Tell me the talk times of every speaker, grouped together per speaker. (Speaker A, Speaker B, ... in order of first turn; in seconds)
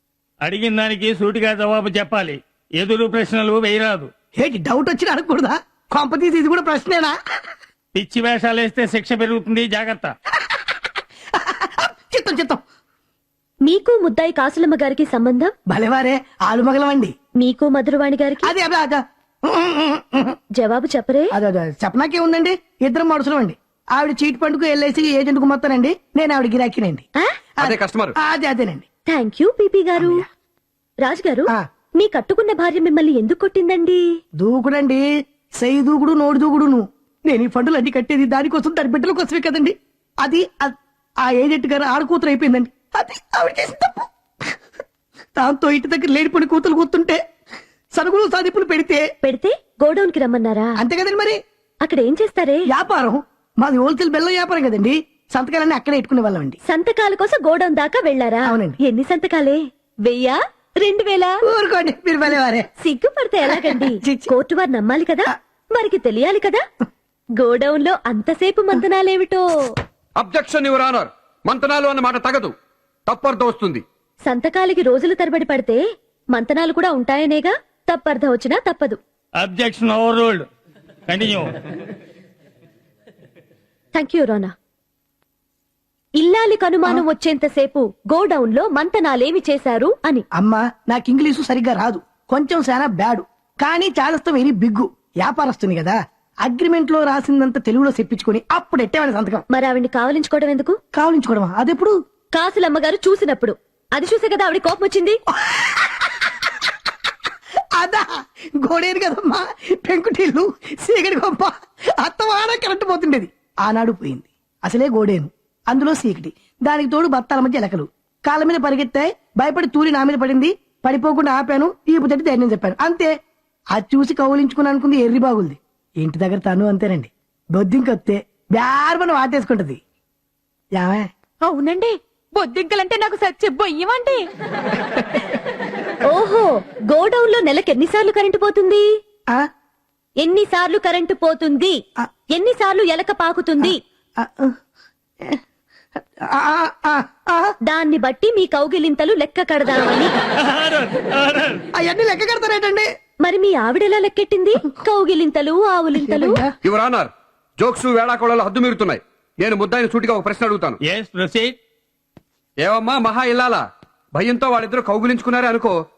Speaker A: 0.4-4.1, 7.9-10.1, 79.4-80.5, 81.1-81.5, 150.4-151.6, 160.9-161.5
Speaker B: 4.4-7.2, 11.3-12.6, 15.7-17.1, 18.4-20.4, 21.3-27.0, 27.6-28.9, 30.0-30.2, 34.4-35.0, 35.6-44.1, 45.4-47.2, 47.9-49.0, 50.8-51.4, 52.7-56.6, 58.5-58.8, 61.5-62.7, 63.5-64.3, 90.3-99.4, 100.9-101.9, 105.3-106.5, 107.8-123.1, 123.7-129.8, 130.8-131.1, 143.6-144.6, 146.3-147.5, 151.8-152.8, 156.0-156.5
Speaker C: 13.6-15.5, 17.4-18.5, 20.6-21.3, 29.1-30.2, 31.0-34.1, 49.2-50.8, 51.8-52.7, 56.6-61.4, 62.8-66.6, 67.4-69.8, 74.2-75.8, 76.3-79.0, 83.9-84.5, 86.2-90.2, 99.5-100.8, 102.3-105.2, 136.1-138.8, 140.2-141.8, 142.3-143.8, 147.7-150.1, 153.2-156.4
Speaker D: 27.6-28.1, 70.2-72.5, 73.1-73.8, 156.6-157.1, 157.6-160.8, 162.6-163.6, 164.2-165.8
Speaker E: 131.7-134.0